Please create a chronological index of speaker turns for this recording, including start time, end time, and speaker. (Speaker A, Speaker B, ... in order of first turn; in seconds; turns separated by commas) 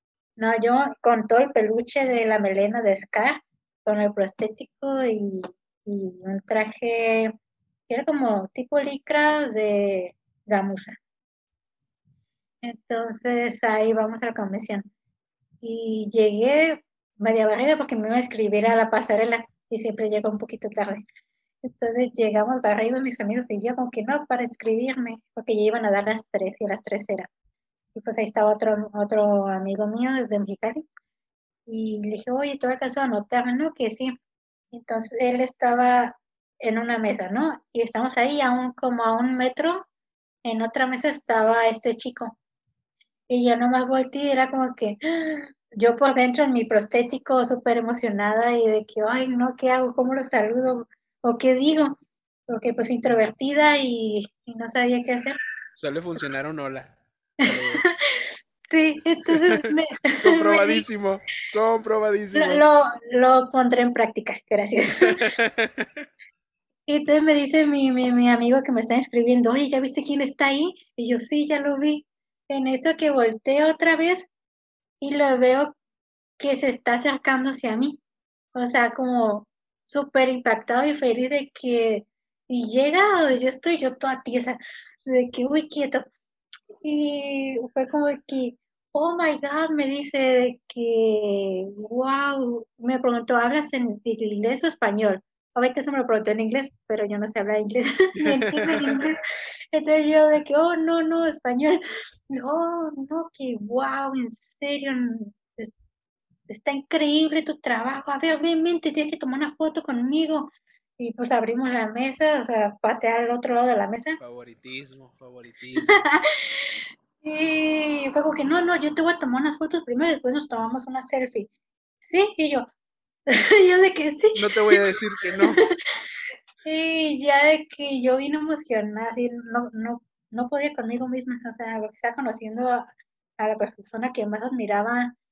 Speaker A: 0.4-7.3, Speaker A: 7.9-11.0, Speaker A: 12.6-14.9, Speaker A: 15.6-21.0, Speaker A: 21.6-27.3, Speaker A: 27.9-30.8, Speaker A: 31.7-34.1, Speaker A: 34.7-39.9, Speaker A: 40.4-42.3, Speaker A: 43.3-52.0, Speaker A: 52.5-55.4, Speaker B: 55.7-58.0, Speaker A: 57.4-57.8, Speaker A: 58.7-60.8, Speaker B: 59.3-59.7, Speaker B: 60.2-62.6, Speaker A: 62.3-65.2, Speaker B: 65.0-66.0, Speaker A: 66.9-74.3, Speaker A: 75.0-75.7, Speaker A: 76.4-78.0, Speaker A: 78.5-86.1, Speaker A: 86.8-99.2, Speaker B: 98.2-99.0, Speaker A: 99.7-101.8, Speaker A: 102.3-105.7, Speaker A: 106.5-114.2, Speaker B: 114.2-116.0, Speaker A: 115.8-121.5, Speaker A: 122.0-122.7, Speaker A: 123.3-124.8, Speaker B: 124.3-125.6, Speaker A: 125.4-125.7, Speaker A: 126.6-132.8, Speaker A: 133.4-135.2